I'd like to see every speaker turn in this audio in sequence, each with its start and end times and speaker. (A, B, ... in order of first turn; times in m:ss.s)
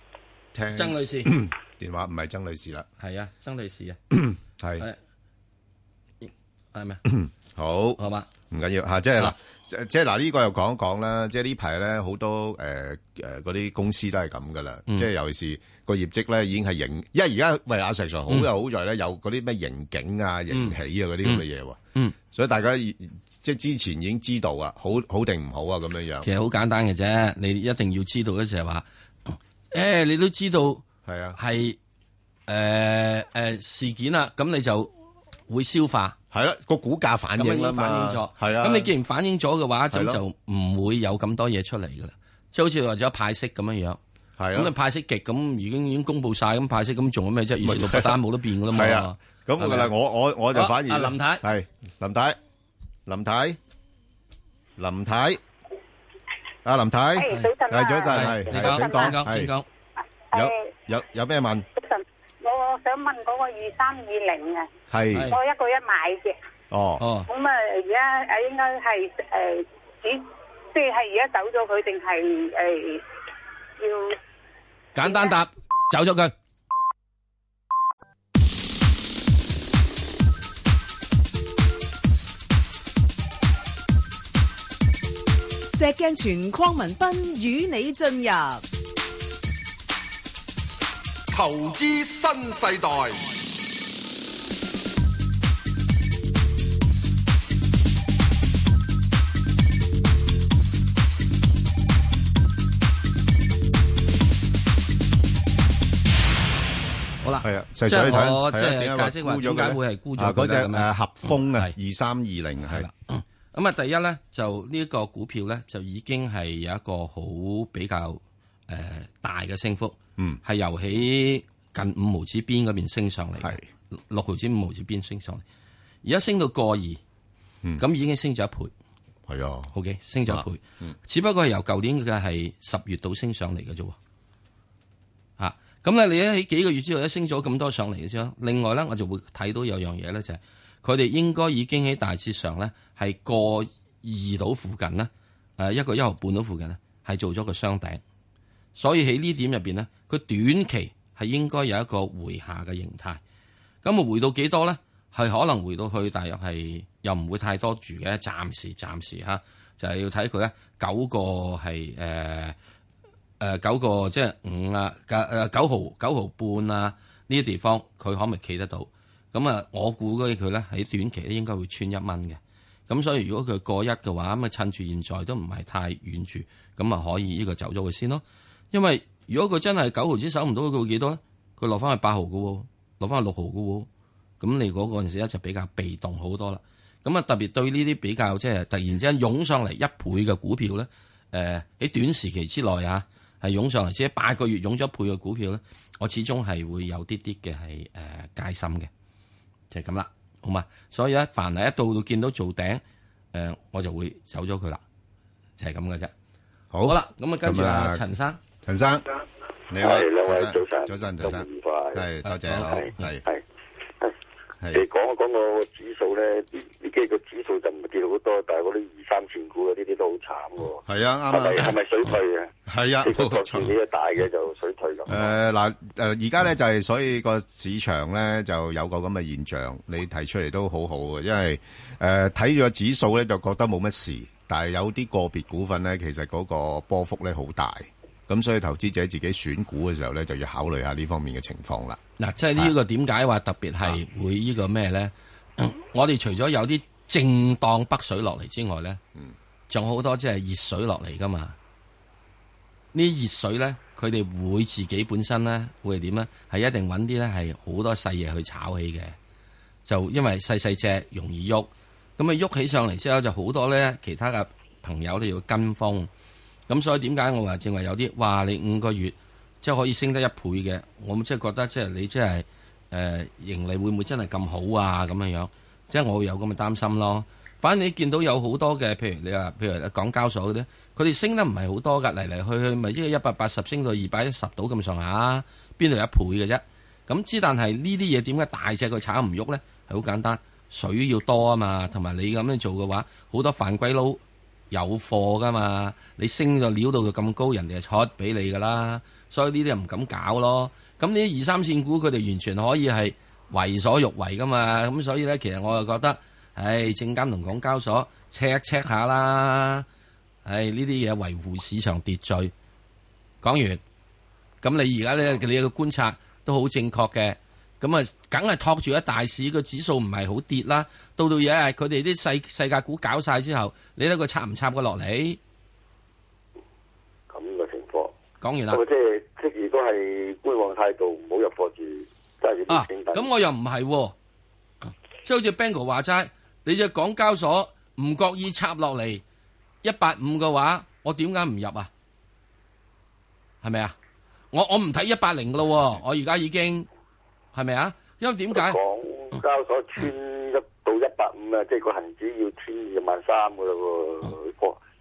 0:00.5-0:02.9 A
0:00.8-0:01.4 B
0:03.0-0:04.0 B
0:04.1-0:04.8 A
0:06.2-0:07.0 B
0:07.1-0:08.0 A
0:08.0-0:08.3 B
0:08.5-0:21.8 A
0:20.5-0:21.4 B
0:22.3-0:26.3 A
0:26.2-0:30.8 B
0:31.1-0:31.4 A
0:31.4-0:31.8 B
0:32.5-0:34.9 B
0:35.5-0:36.2 B
0:36.3-0:38.9 A
0:37.4-0:44.0 B
0:39.9-0:40.2 A
0:44.4-0:44.7 A
0:44.5-0:49.9 B
0:47.6-0:52.4 A
0:50.5-0:51.4 B
0:53.1-0:53.6 A
0:54.8-0:55.4 A
0:56.6-0:59.5 A
0:58.1-0:59.7 B
1:00.3-1:01.7 A
1:02.4-1:04.6 C
1:04.9-1:05.3 A
1:05.1-1:05.4 B
1:05.4-1:06.3 C
1:06.7-1:07.0 A
1:07.0-1:07.3 B
1:07.3-1:10.2 C
1:10.8-1:13.0 C
1:15.0-1:16.3 B
1:25.7-1:28.6 D
1:31.3-1:33.3 E
1:47.2-1:50.9 B
1:47.4-1:52.9 A
1:52.6-2:05.4 B
2:03.4-2:03.6 A
2:06.0-2:07.0 B
2:07.8-2:08.7 B
2:09.3-2:09.7 A
2:09.7-2:14.0 B
2:10.3-2:11.0 A
2:15.4-2:28.0 B
2:28.8-2:33.2 B
2:33.8-2:42.6 B
2:43.4-3:03.9 B
3:04.4-3:18.9 B
3:19.7-3:22.8 B
3:23.3-3:24.8 B
3:25.6-3:26.1 B
3:26.7-3:28.0 A
3:26.8-3:28.4 B
3:28.6-3:29.0 A
3:29.7-3:33.2 A
3:29.8-3:32.0 F
3:32.2-3:33.0 B
3:32.6-3:33.4 F
3:34.7-3:45.3 F
3:40.9-3:41.7 A
3:42.7-3:43.7 A
3:45.1-4:02.0 A
4:02.2-4:09.0 B
4:09.7-4:11.6 B
4:12.9-4:19.2 B
4:19.8-4:26.1 B
4:26.7-5:09.9 B
5:10.4-5:12.5 B
5:13.4-5:13.8 B
5:14.6-5:25.4 B
5:27.3-5:28.1 F
5:28.4-5:28.8 B
5:28.7-5:33.3 F
5:32.7-5:34.2 B
5:34.9-5:39.2 B
5:39.8-5:41.9 B
5:43.6-5:44.0 B
5:44.5-5:46.9 B
5:47.5-5:48.8 B
5:48.5-5:54.8 F